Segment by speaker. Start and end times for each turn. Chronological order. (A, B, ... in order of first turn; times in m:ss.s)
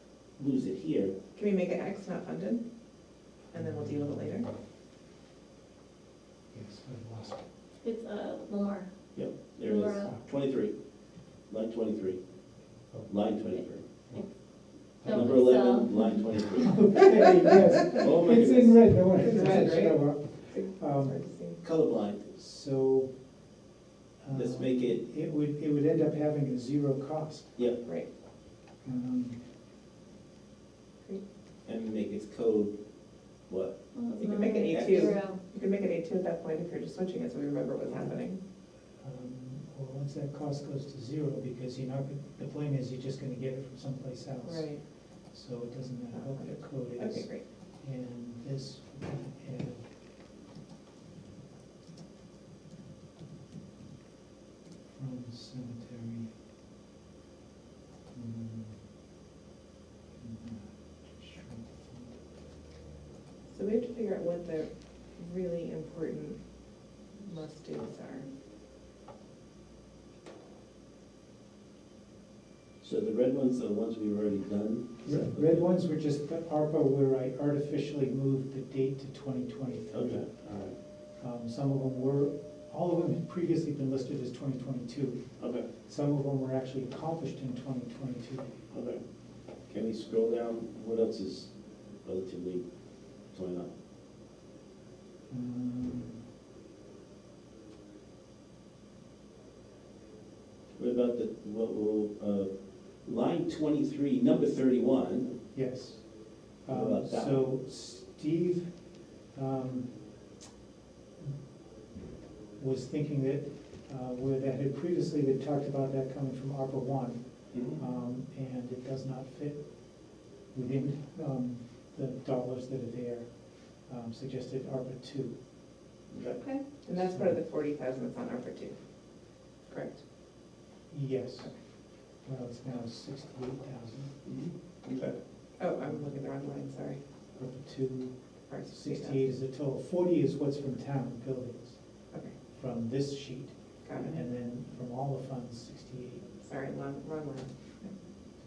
0:00.4-0:01.1 A
0:01.3-0:02.6 B
0:03.5-0:04.5 B
0:03.5-0:04.4 C
0:06.5-0:07.5 C
0:07.8-0:08.9 D
0:09.1-0:10.8 A
0:09.5-0:10.1 D
0:11.5-0:12.2 A
0:12.9-0:13.2 C
0:13.0-0:13.8 A
0:14.1-0:14.4 C
0:15.0-0:15.5 C
0:15.0-0:16.2 D
0:15.0-0:16.8 A
0:16.5-0:21.2 C
0:17.8-0:18.9 A
0:19.2-0:21.6 B
0:21.6-0:22.3 A
0:22.3-0:23.2 C
0:24.2-0:27.6 C
0:24.3-0:25.0 A
0:28.8-0:29.4 C
0:31.6-0:32.8 A
0:33.5-0:33.8 A
0:33.9-0:35.4 D
0:34.2-0:38.4 B
0:34.7-0:35.1 A
0:39.0-0:44.8 C
0:44.4-0:44.8 B
0:45.3-0:49.8 C
0:46.1-0:47.4 B
0:54.9-0:56.3 C
0:58.1-0:58.8 C
1:00.2-1:02.2 C
1:03.5-1:06.4 B
1:07.2-1:08.3 B
1:12.8-1:15.7 A
1:15.0-1:20.3 C
1:19.9-1:20.8 A
1:21.2-1:25.3 C
1:25.4-1:25.7 A
1:25.8-1:28.5 C
1:28.7-1:29.0 A
1:29.7-1:31.5 A
1:32.0-1:32.6 A
1:33.3-1:33.7 A
1:35.3-1:36.2 C
1:40.8-1:42.5 A
1:43.0-1:45.4 A
1:45.5-1:48.8 C
1:46.7-1:47.4 A
1:49.3-1:50.0 C
1:52.6-2:05.4 C
1:57.5-1:57.8 A
2:06.1-2:06.4 A
2:06.4-2:08.8 B
2:06.9-2:07.4 C
2:09.7-2:10.0 B
2:10.9-2:11.5 C
2:12.2-2:14.2 C
2:14.2-2:15.1 A
2:15.6-2:17.0 B
2:17.3-2:21.8 C
2:18.5-2:19.2 B
2:22.5-2:26.3 C
2:23.8-2:24.2 B
2:26.4-2:28.0 B